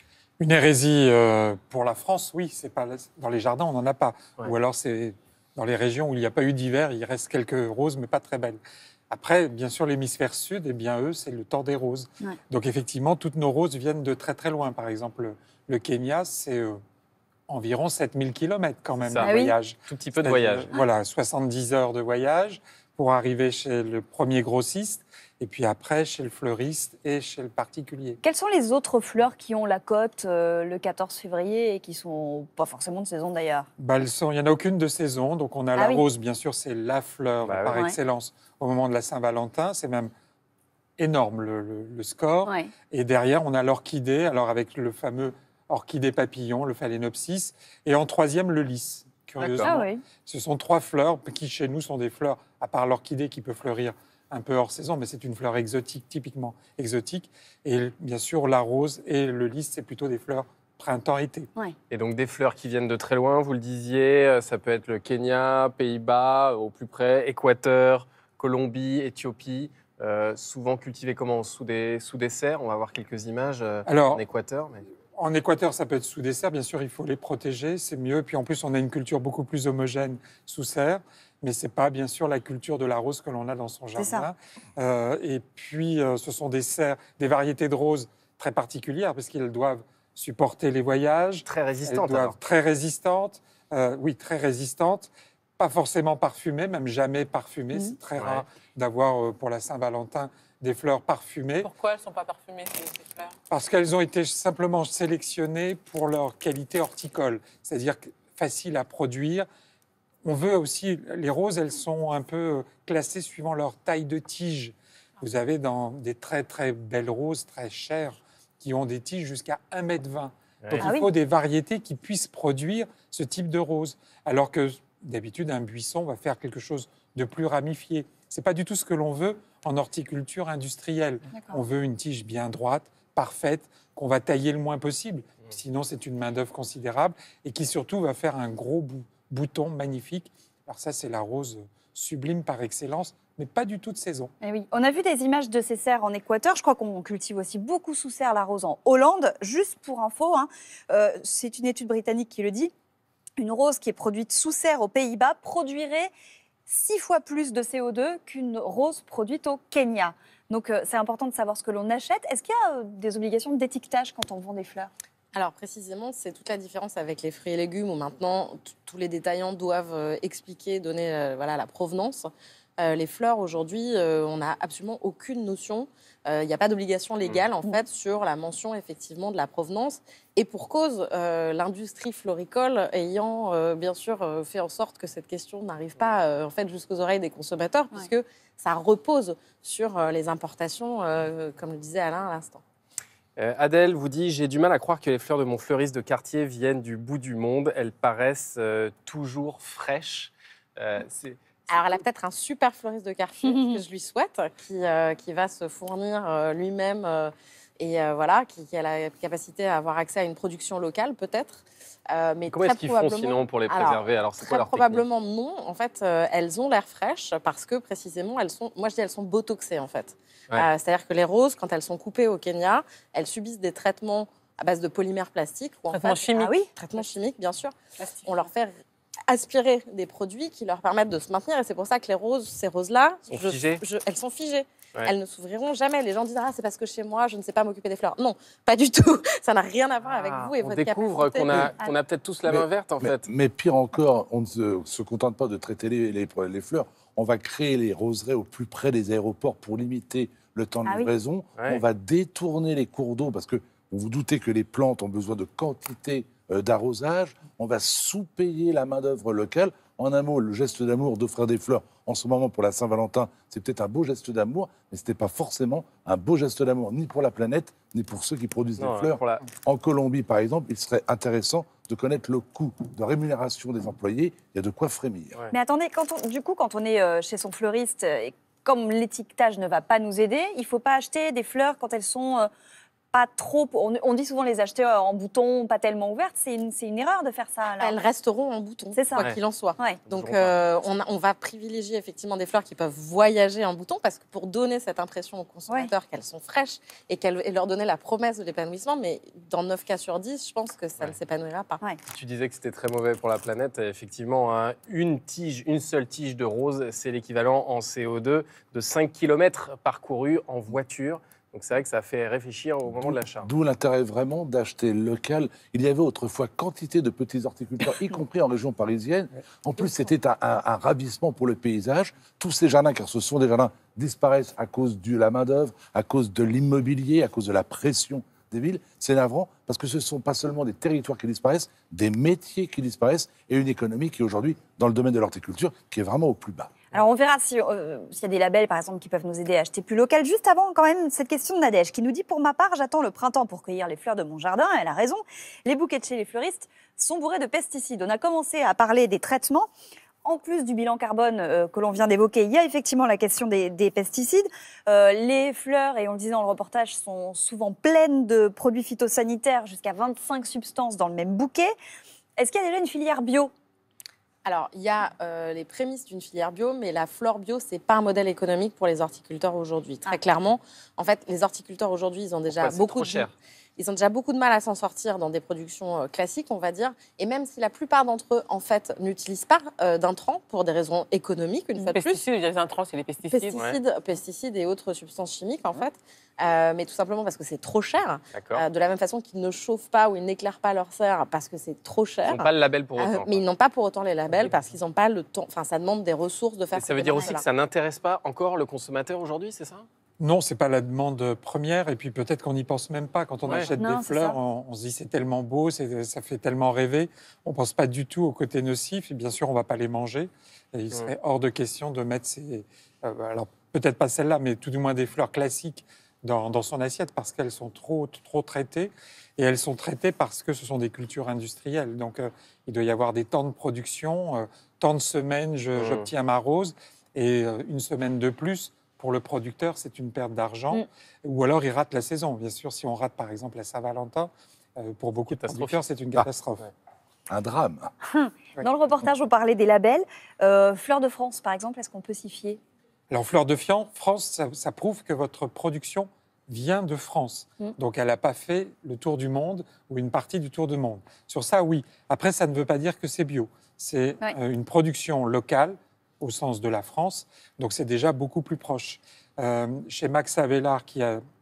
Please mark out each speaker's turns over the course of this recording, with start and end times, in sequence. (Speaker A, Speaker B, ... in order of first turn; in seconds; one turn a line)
Speaker A: 0.4-16.8
Speaker A: 17.5-28.2
Speaker B: 19.0-20.9
Speaker C: 19.3-19.6
Speaker C: 28.2-33.7
Speaker A: 33.8-40.1
Speaker C: 35.8-36.0
Speaker B: 37.4-37.9
Speaker A: 41.0-61.5
Speaker B: 49.4-49.8
Speaker C: 49.6-50.0
Speaker B: 61.9-74.8
Speaker A: 73.9-74.2
Speaker A: 75.2-101.7
Speaker C: 84.0-84.3
Speaker B: 91.5-92.4
Speaker B: 98.2-98.5
Speaker D: 101.7-103.3
Speaker A: 103.5-109.5
Speaker A: 110.2-144.3
Speaker B: 120.6-121.0
Speaker C: 120.8-121.1
Speaker C: 131.3-131.6
Speaker C: 144.4-152.7
Speaker C: 153.4-156.1
Speaker C: 156.7-164.9
Speaker E: 165.3-192.6
Speaker B: 193.4-202.0
Speaker E: 201.7-228.7
Speaker B: 212.5-215.0
Speaker D: 225.9-226.5
Speaker D: 228.0-228.5
Speaker E: 229.3-241.7
Speaker B: 233.3-233.8
Speaker B: 240.0-243.3
Speaker F: 242.5-275.4
Speaker C: 250.8-251.1
Speaker B: 251.6-251.8
Speaker B: 268.8-269.4
Speaker C: 275.5-282.5
Speaker C: 283.1-287.9
Speaker E: 287.8-301.8
Speaker C: 288.9-290.0
Speaker B: 289.1-289.4
Speaker B: 290.1-290.6
Speaker B: 302.1-313.5
Speaker F: 312.9-336.8
Speaker C: 336.9-349.7
Speaker C: 350.2-361.7
Speaker C: 362.4-363.5
Speaker E: 364.4-382.2
Speaker B: 372.5-373.3
Speaker D: 381.9-383.7
Speaker E: 383.3-397.5
Speaker B: 388.3-388.6
Speaker B: 392.2-393.4
Speaker B: 396.8-399.9
Speaker A: 400.2-436.7
Speaker B: 403.5-403.7
Speaker C: 403.5-404.4
Speaker B: 425.8-426.1
Speaker B: 435.3-435.9
Speaker F: 437.3-437.9
Speaker C: 438.2-442.6
Speaker A: 443.1-461.2